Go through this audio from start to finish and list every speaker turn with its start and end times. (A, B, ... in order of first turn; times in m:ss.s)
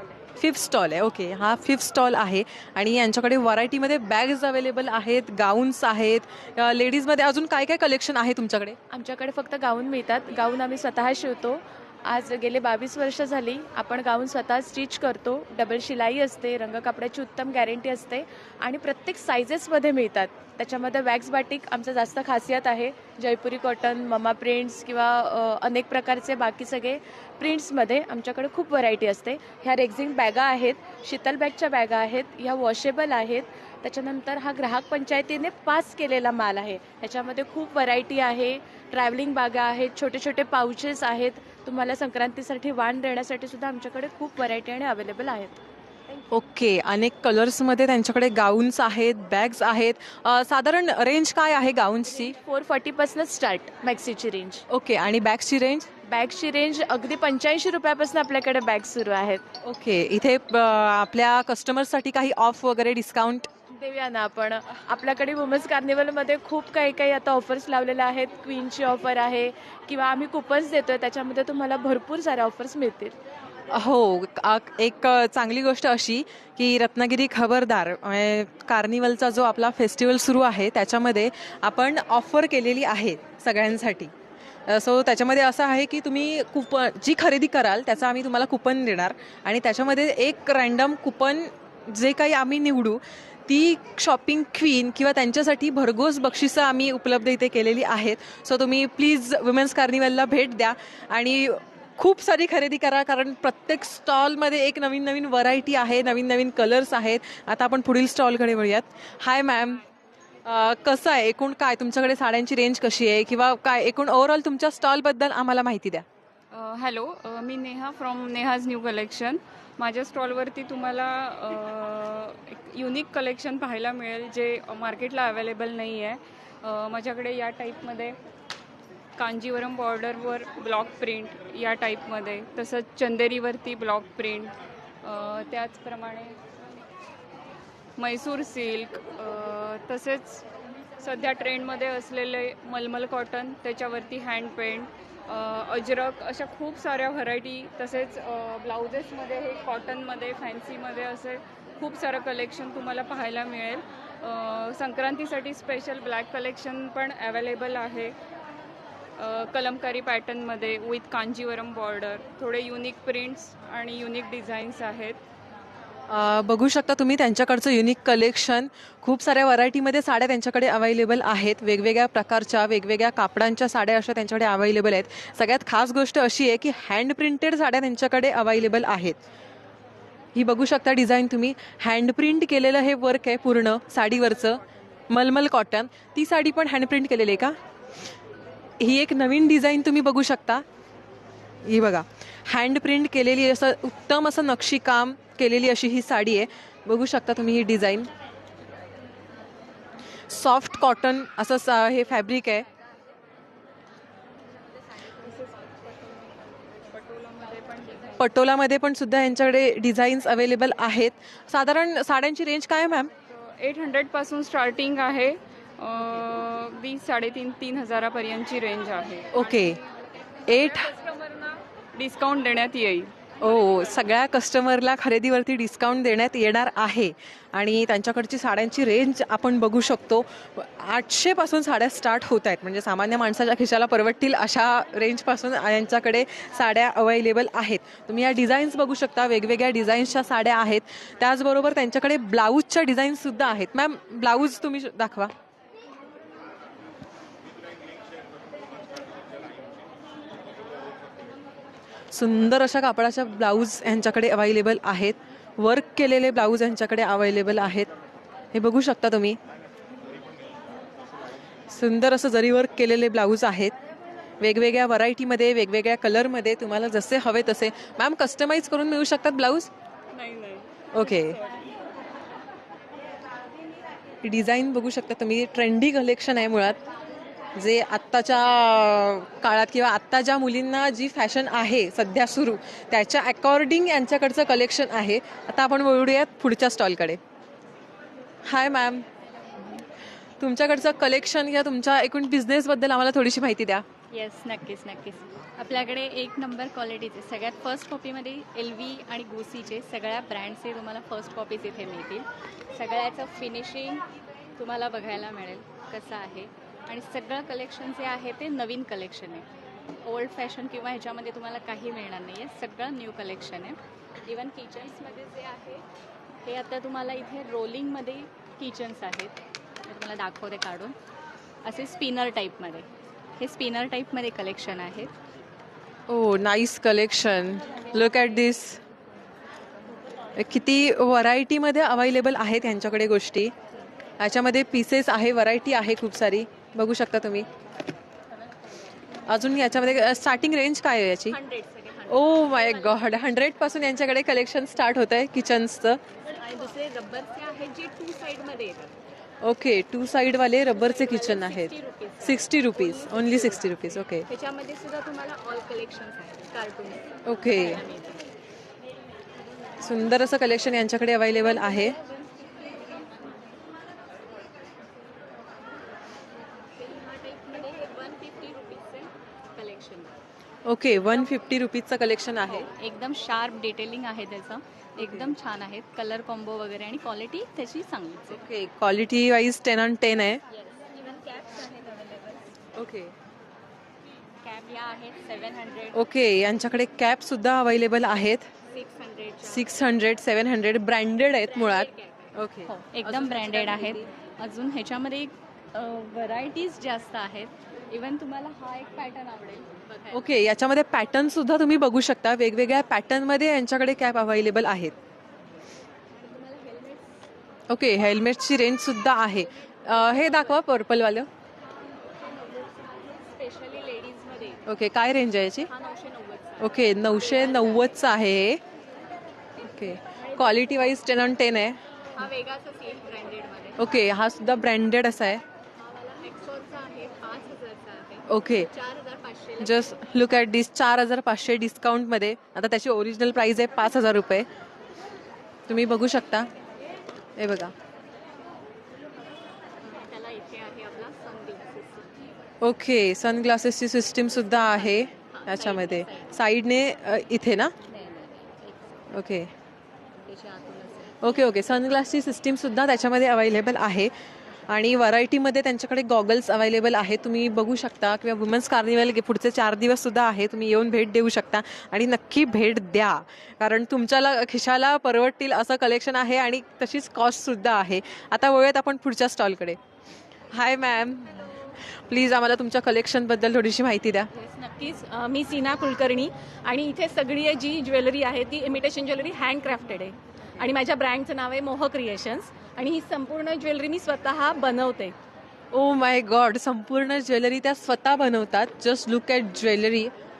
0:00.4-0:08.8 A
0:08.9-0:45.6 B
0:46.3-0:52.4 A
0:52.0-0:54.6 B
0:54.7-0:55.9 A
0:56.1-0:59.5 B
0:59.6-1:03.5 A
1:03.7-1:13.2 B
1:13.7-1:24.1 A
1:24.7-1:49.8 A
1:50.5-1:56.0 A
1:56.5-2:08.2 C
2:09.2-2:16.4 C
2:18.0-2:20.4 C
2:21.0-2:38.1 C
2:39.2-2:45.2 C
2:46.1-2:59.2 A
3:00.4-3:07.6 A
3:08.8-3:10.6 A
3:11.7-3:18.1 A
3:20.3-3:22.7 A
3:25.2-3:25.6 C
3:26.9-3:28.2 C
3:28.2-3:33.1 A
3:33.3-3:39.4 C
3:39.3-3:39.8 A
3:40.5-3:40.9 A
3:41.1-3:43.2 C
3:43.4-4:05.3 A
4:12.1-4:17.9 A
4:18.5-4:19.4 A
4:21.7-4:23.7 A
4:24.4-4:29.7 A
4:30.2-4:31.4 C
4:30.9-4:31.4 A
4:34.2-4:36.8 A
4:37.6-4:47.2 A
4:48.4-4:49.0 A
4:50.4-4:53.8 A
4:54.1-5:04.0 D
5:04.6-5:09.4 D
5:10.0-5:15.8 D
5:16.5-5:19.4 D
5:19.9-5:21.0 D
5:21.6-5:22.9 D
5:23.4-5:25.1 D
5:26.1-5:28.8 A
5:30.4-5:33.5 A
5:34.2-5:37.5 A
5:39.3-5:41.4 A
5:41.3-5:43.3 D
5:42.1-5:46.0 A
5:46.3-5:48.9 D
5:49.4-5:54.3 A
5:50.7-5:53.6 D
5:54.3-5:58.2 D
5:57.3-5:57.8 A
5:59.8-6:02.0 A
6:01.5-6:03.0 D
6:06.8-6:10.2 D
6:10.6-6:12.7 A
6:12.5-6:18.4 D
6:15.0-6:15.3 A
6:18.3-6:20.4 A
6:20.5-6:22.5 D
6:22.8-6:23.1 A
6:24.4-6:26.0 D
6:25.9-6:28.5 A
6:28.7-6:29.8 D
6:29.4-6:33.4 A
6:31.4-6:40.3 D
6:40.1-6:45.0 A
6:46.2-6:47.1 D
6:47.7-6:51.3 A
6:49.9-6:50.6 D
6:52.2-6:54.6 D
6:54.6-6:55.7 A
6:55.7-6:58.0 D
6:56.6-6:58.6 A
6:59.7-7:01.8 A
7:00.2-7:00.8 D
7:02.2-7:03.9 D
7:03.8-7:05.4 A
7:05.8-7:10.0 D
7:08.3-7:08.7 A
7:09.6-7:14.5 A
7:15.7-7:16.5 A
7:17.4-7:17.7 A
7:19.8-7:22.1 D
7:22.6-7:27.7 A
7:24.5-7:26.3 D
7:27.9-7:28.9 D
7:29.1-7:29.5 A
7:30.3-7:31.5 D
7:31.2-7:34.1 A
7:34.7-7:49.8 A
7:50.5-7:51.5 A
7:52.1-7:54.3 A
7:54.3-8:05.2 E
8:05.7-8:10.1 A